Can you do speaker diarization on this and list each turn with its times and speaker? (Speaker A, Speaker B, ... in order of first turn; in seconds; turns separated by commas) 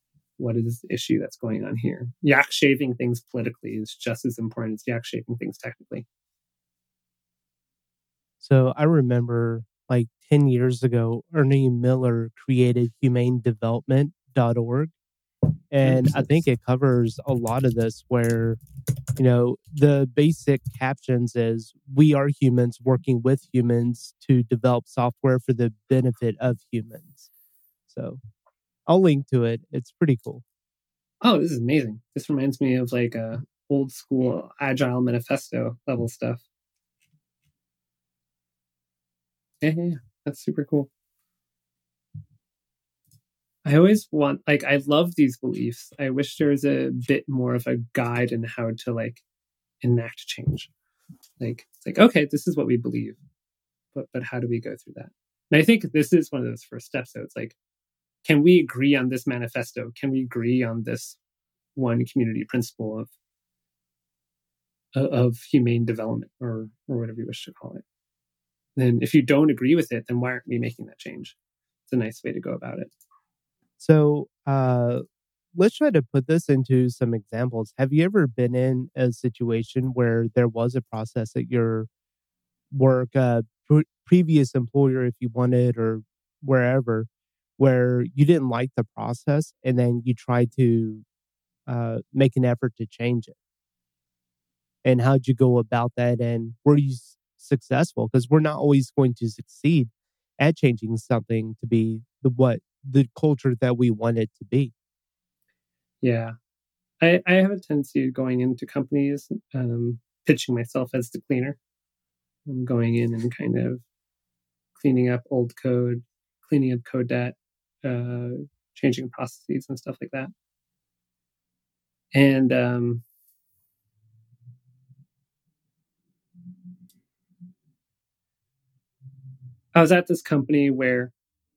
Speaker A: 0.4-6.0, Speaker B: 8.4-14.9, Speaker B: 15.7-18.6, Speaker A: 15.8-16.2, Speaker B: 19.2-27.3, Speaker B: 27.9-28.2, Speaker B: 28.9-30.4, Speaker A: 31.2-36.4, Speaker A: 39.6-40.9, Speaker A: 43.6-49.2, Speaker A: 49.8-50.7, Speaker A: 51.4-53.2, Speaker A: 53.9-57.6, Speaker A: 58.2-61.2, Speaker A: 61.8-63.1, Speaker A: 65.0-67.8, Speaker A: 68.8-71.3, Speaker A: 71.9-72.9, Speaker B: 73.8-75.0, Speaker B: 75.5-81.9, Speaker B: 82.7-91.0, Speaker B: 91.7-93.3, Speaker B: 94.8-104.7, Speaker A: 106.0-106.3, Speaker A: 107.0-111.6, Speaker A: 112.5-113.8, Speaker A: 114.8-120.3, Speaker A: 122.1-123.0, Speaker A: 129.7-131.1